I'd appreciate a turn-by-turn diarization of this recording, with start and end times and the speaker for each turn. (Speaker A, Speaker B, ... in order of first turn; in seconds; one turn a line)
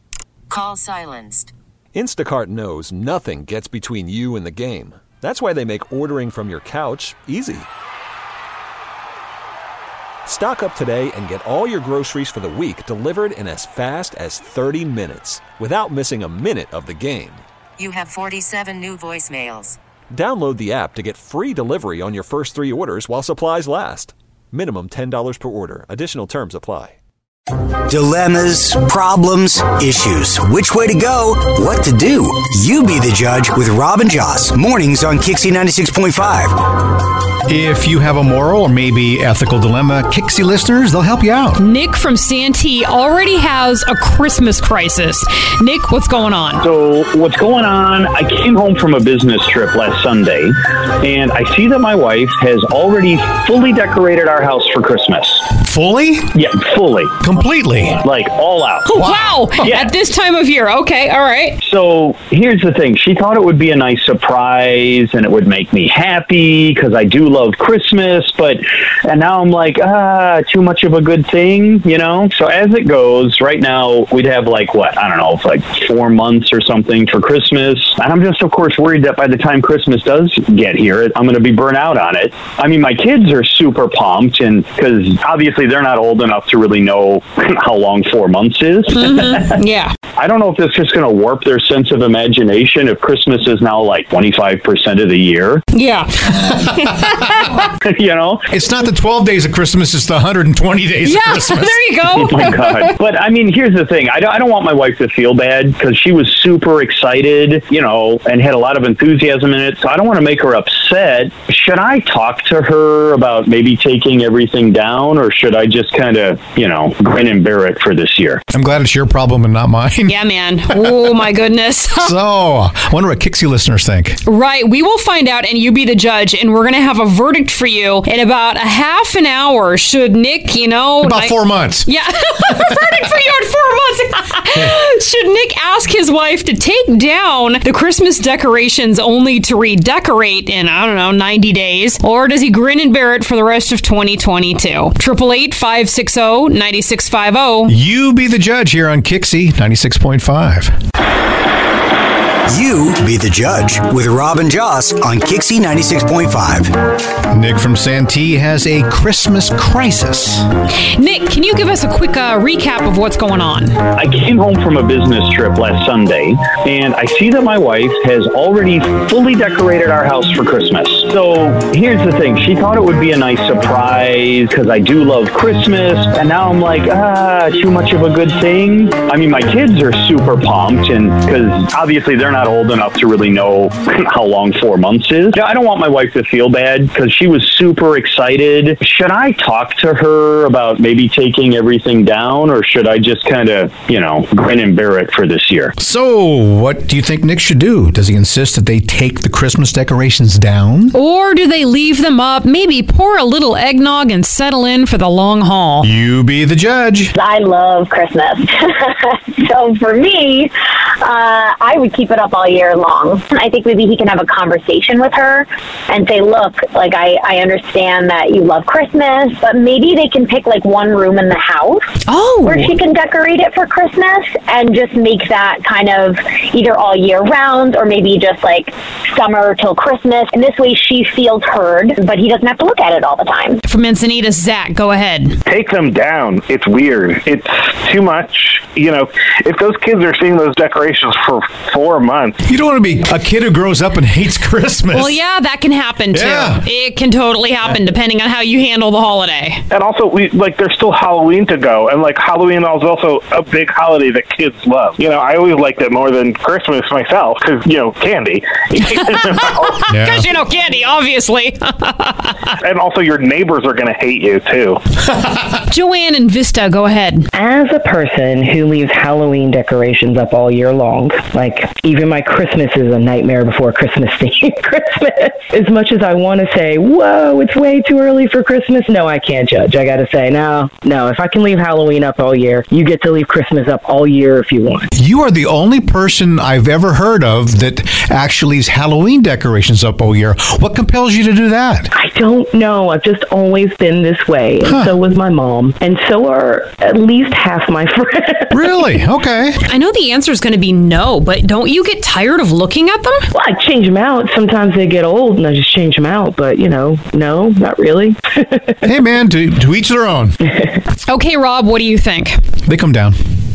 Speaker A: 0.5-1.5
Speaker B: 1.9-7.7
Speaker B: 10.3-17.4
Speaker A: 17.8-19.8
Speaker B: 20.1-27.0
Speaker C: 27.9-36.6
Speaker D: 37.5-41.6
Speaker E: 41.5-46.6
Speaker F: 46.6-55.4
Speaker D: 55.6-56.3
Speaker F: 56.3-57.1
Speaker D: 57.2-58.0
Speaker F: 58.0-58.9
Speaker E: 58.8-61.6
Speaker D: 59.0-59.7
Speaker F: 61.6-89.4
Speaker E: 89.0-89.9
Speaker F: 90.2-95.6
Speaker E: 95.7-97.7
Speaker F: 97.8-98.4
Speaker D: 98.5-101.8
Speaker E: 101.0-102.9
Speaker F: 102.1-118.4
Speaker D: 118.5-120.2
Speaker E: 120.1-122.1
Speaker D: 122.0-124.2
Speaker E: 124.2-147.7
Speaker D: 131.0-131.9
Speaker D: 147.7-150.7
Speaker C: 152.5-156.7
Speaker D: 157.3-160.4
Speaker E: 160.9-163.8
Speaker F: 164.0-195.7
Speaker D: 195.8-201.0
Speaker E: 200.9-205.9
Speaker D: 205.8-207.1
Speaker G: 207.2-210.5
Speaker G: 211.0-221.9
Speaker E: 222.1-222.7
Speaker G: 222.4-233.6
Speaker E: 233.6-235.4
Speaker H: 235.5-242.3
Speaker D: 242.4-245.2
Speaker E: 244.9-249.6
Speaker D: 246.1-246.6
Speaker H: 249.7-259.8
Speaker E: 258.9-262.5
Speaker D: 259.9-260.2
Speaker H: 262.6-264.8
Speaker E: 265.7-267.3
Speaker I: 267.3-284.9
Speaker D: 284.9-291.9
Speaker I: 291.9-298.8
Speaker D: 294.6-294.9
Speaker D: 298.5-299.6
Speaker E: 299.6-303.2
Speaker I: 303.3-308.8
Speaker D: 308.8-310.4
Speaker E: 311.1-312.4
Speaker D: 312.6-313.1